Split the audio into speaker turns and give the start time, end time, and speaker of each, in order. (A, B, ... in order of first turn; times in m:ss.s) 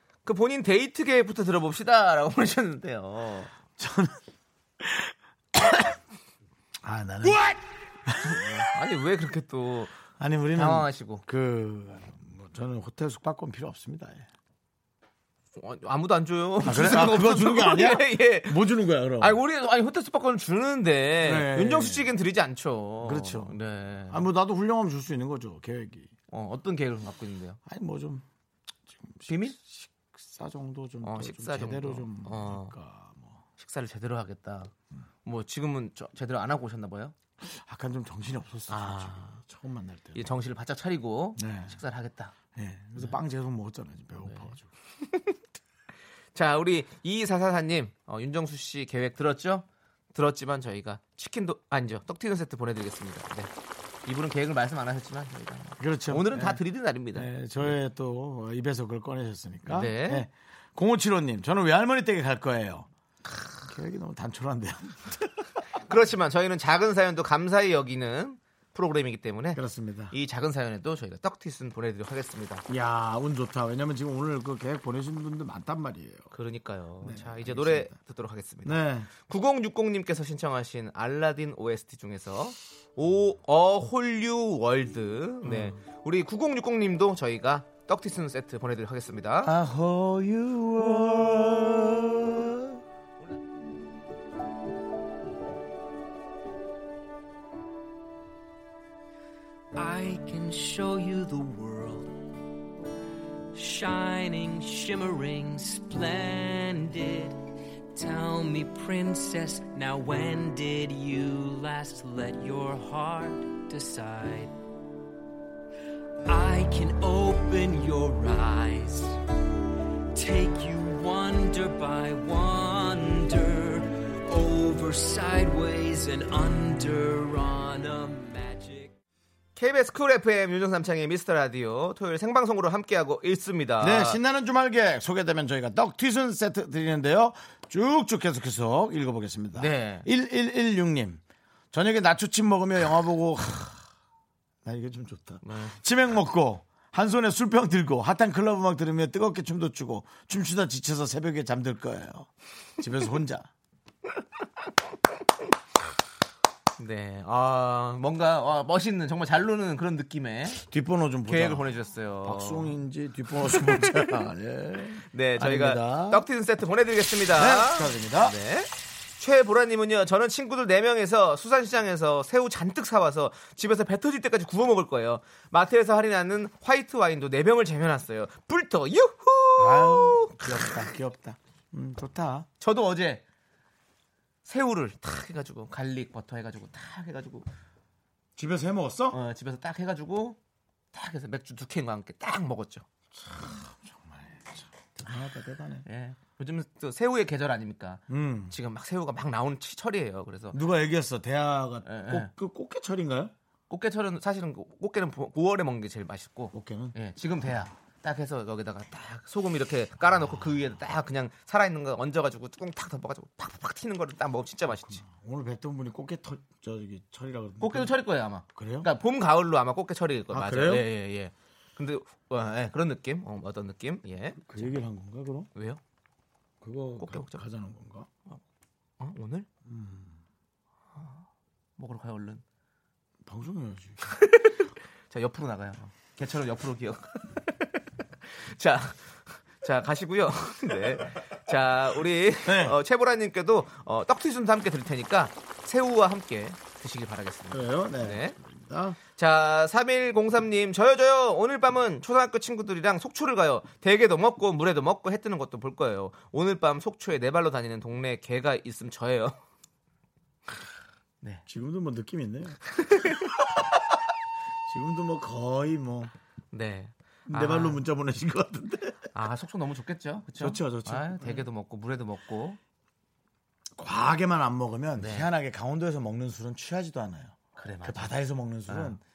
0:00.2-0:03.5 A
0:03.8-0:04.2 B
0:04.8-0:05.8 B
0:06.8-0:07.4 B
0:07.2-0:07.6 A
0:08.1-0:08.5 B
0:08.2-0:09.9 A
0:10.2-0:14.3 B
0:10.6-0:11.2 A
0:15.6-0:18.6 A
0:16.6-0:19.4 B
0:19.2-0:24.2 A
0:21.2-0:22.1 B
0:23.0-0:23.6 B
0:24.1-0:26.1 B
0:26.3-0:27.6 A
0:27.6-0:28.2 B
0:28.9-0:33.4 B
0:29.3-0:29.6 A
0:31.0-0:32.8 A
0:33.6-0:34.7 A
0:35.2-0:37.1 A
0:37.4-0:40.3 B
0:38.7-0:39.3 A
0:40.2-0:42.4 A
0:41.4-0:41.8 B
0:42.5-0:44.7 B
0:44.2-0:44.5 A
0:46.4-0:53.5 A
0:54.1-0:57.8 A
0:55.8-0:56.6 B
0:57.1-1:02.9 B
0:59.7-1:00.3 A
1:03.6-1:05.3 B
1:05.9-1:09.6 A
1:09.5-1:10.1 B
1:10.1-1:12.6 A
1:12.7-1:16.3 B
1:16.3-1:29.5 A
1:17.0-1:18.0 B
1:18.6-1:19.1 B
1:25.4-1:25.8 B
1:29.4-1:32.8 B
1:39.8-1:42.1 C
1:43.5-1:47.4 C
1:48.0-1:54.5 C
1:56.3-1:59.2 C
2:00.2-2:08.9 C
2:09.6-2:14.2 A
2:13.8-2:21.2 B
2:19.6-2:20.1 A
2:21.7-2:23.8 B
2:24.6-2:33.5 B
2:25.4-2:25.8 A
2:36.8-2:40.6 A
2:40.6-2:41.7 B
2:41.3-2:42.7 A
2:42.2-2:46.3 B
2:43.6-2:44.2 A
2:45.1-3:00.9 A
2:47.3-2:48.4 B
2:59.6-3:02.5 B
3:02.6-3:03.2 A
3:04.4-3:07.5 A
3:08.4-3:09.2 B
3:09.1-3:10.4 A
3:10.9-3:12.8 A
3:13.2-3:15.8 B
3:15.8-3:20.6 A
3:18.1-3:18.6 B
3:20.5-3:23.3 B
3:21.8-3:22.3 A
3:23.7-3:35.0 A
3:26.5-3:27.0 B
3:34.9-3:37.9 B
3:37.6-3:44.8 A
3:38.5-3:38.9 B
3:40.3-3:40.9 B
3:44.4-3:45.5 B
3:45.6-3:45.8 A
3:46.6-3:48.1 B
3:47.0-3:47.4 A
3:49.0-3:49.5 A
3:49.7-3:50.2 B
3:51.0-3:51.2 A
3:51.8-3:52.4 A
3:53.2-3:54.0 B
3:54.1-4:08.4 A
4:02.4-4:02.8 B
4:07.5-4:09.0 B
4:09.2-4:19.4 A
4:21.5-4:23.8 B
4:22.8-4:23.1 A
4:24.7-4:26.1 B
4:26.5-4:27.8 A
4:27.3-4:29.0 B
4:29.2-4:32.6 A
4:30.4-4:31.5 B
4:33.8-4:39.0 B
4:35.0-4:35.3 A
4:37.6-4:39.0 A